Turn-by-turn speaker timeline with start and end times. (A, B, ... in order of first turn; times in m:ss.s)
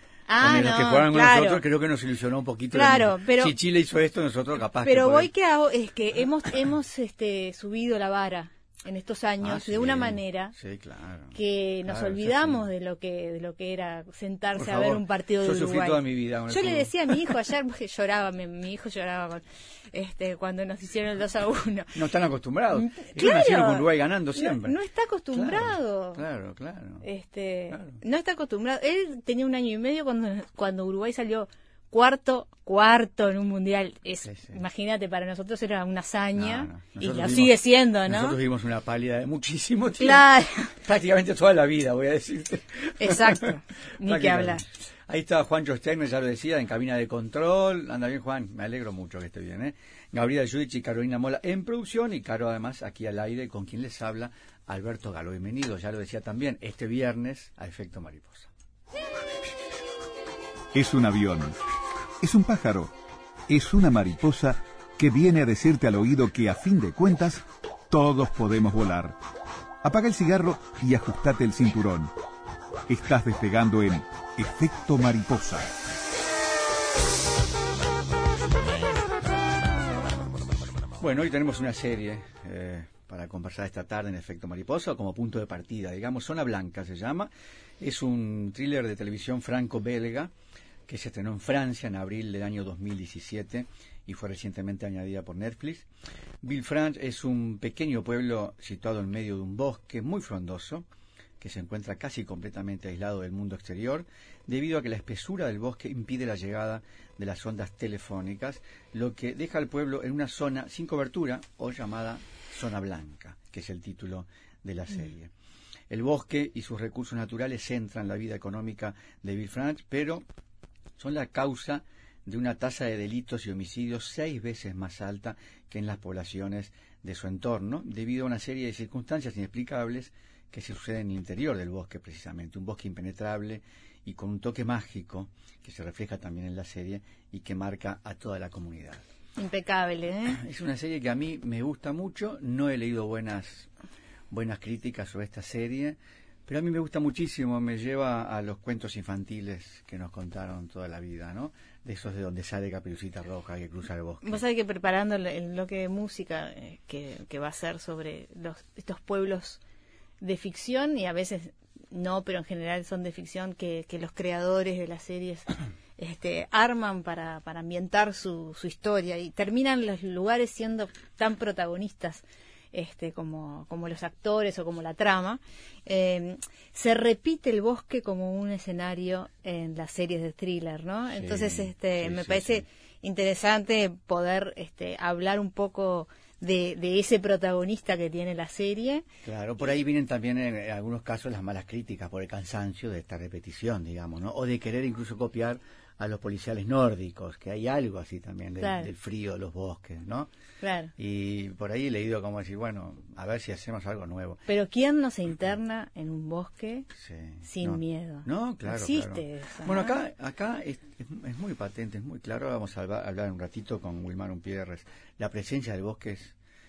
0:00.3-0:01.6 A
0:00.4-0:05.3 B
0:02.7-0:03.5 A
0:04.8-0:10.5 A
0:09.4-0:12.6 B
0:11.3-0:22.0 A
0:14.6-0:16.9 B
0:21.9-0:24.8 B
0:22.7-0:26.2 A
0:25.3-0:27.0 B
0:27.0-0:38.4 A
0:27.7-0:28.0 B
0:34.2-0:34.6 B
0:36.4-0:40.2 B
0:40.0-0:40.7 A
0:40.7-0:58.5 B
0:43.0-0:44.6 A
1:00.7-1:01.6 C
1:02.2-1:02.9 C
1:03.5-1:09.2 C
1:09.8-1:12.1 C
1:12.9-1:15.7 C
1:21.0-1:30.3 B
1:30.9-1:35.9 B
1:36.4-1:40.9 B
1:41.4-1:55.3 B
1:55.9-2:00.2 B
2:01.0-2:19.0 B
2:19.4-2:20.4 A
2:20.3-2:23.7 B
2:24.3-2:34.4 B
2:34.2-2:39.6 A
2:40.2-3:09.0 A
3:01.1-3:02.6 B
3:09.2-3:20.3 B
3:18.6-3:18.9 A
3:20.6-3:20.9 A
3:21.0-3:24.4 B
3:24.5-3:26.9 A
3:26.9-3:36.3 B
3:27.4-3:30.0 A